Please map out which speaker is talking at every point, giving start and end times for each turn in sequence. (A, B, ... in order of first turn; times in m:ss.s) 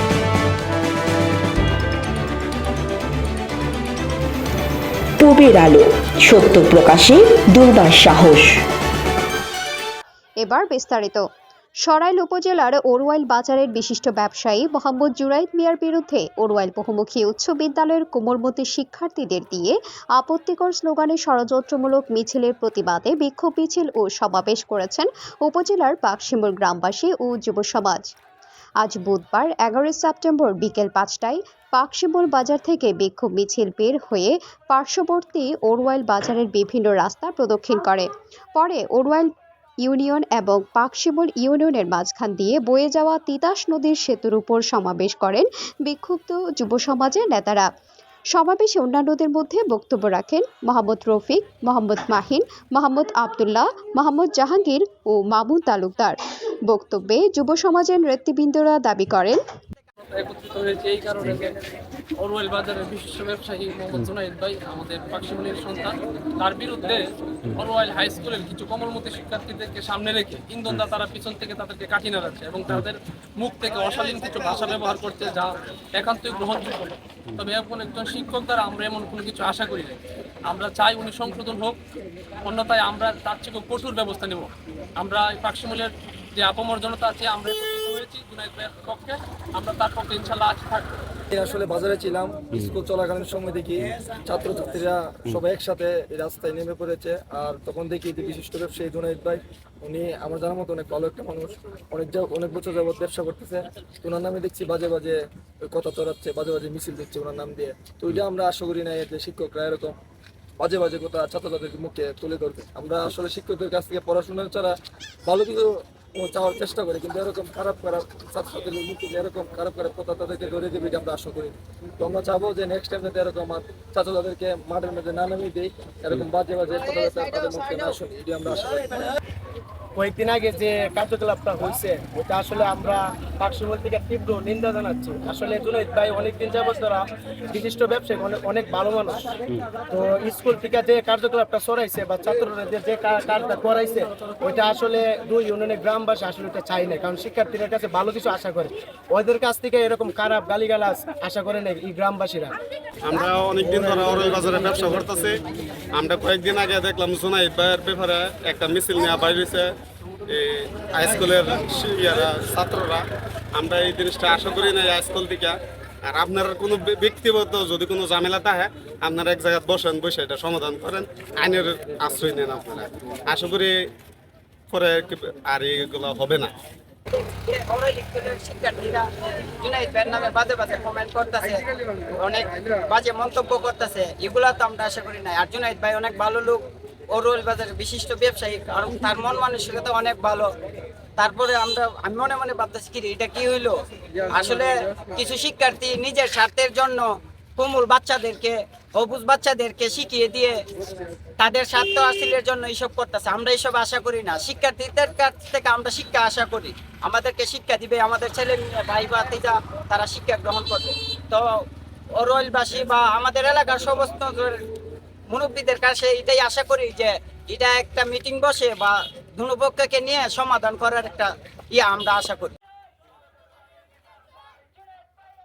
0:05.2-0:08.6 A
0:10.4-0:11.2 B
0:11.8-0:28.1 B
0:28.8-0:47.7 B
0:48.3-0:59.4 B
1:00.2-1:01.5 C
1:02.2-1:21.8 C
1:22.4-1:31.0 C
1:31.3-1:50.0 D
1:50.6-1:54.7 D
1:55.2-2:09.1 D
2:10.0-2:32.5 E
2:33.0-2:35.3 F
2:33.6-2:34.8 E
2:36.0-2:39.7 F
2:40.3-2:43.0 F
2:43.6-2:45.5 F
2:46.1-2:53.7 F
2:54.7-2:56.5 F
2:57.1-2:59.1 G
2:59.6-3:01.6 G
3:02.2-3:10.5 G
3:11.2-3:20.6 G
3:21.4-3:31.6 G
3:32.2-3:34.6 G
3:35.3-3:42.6 G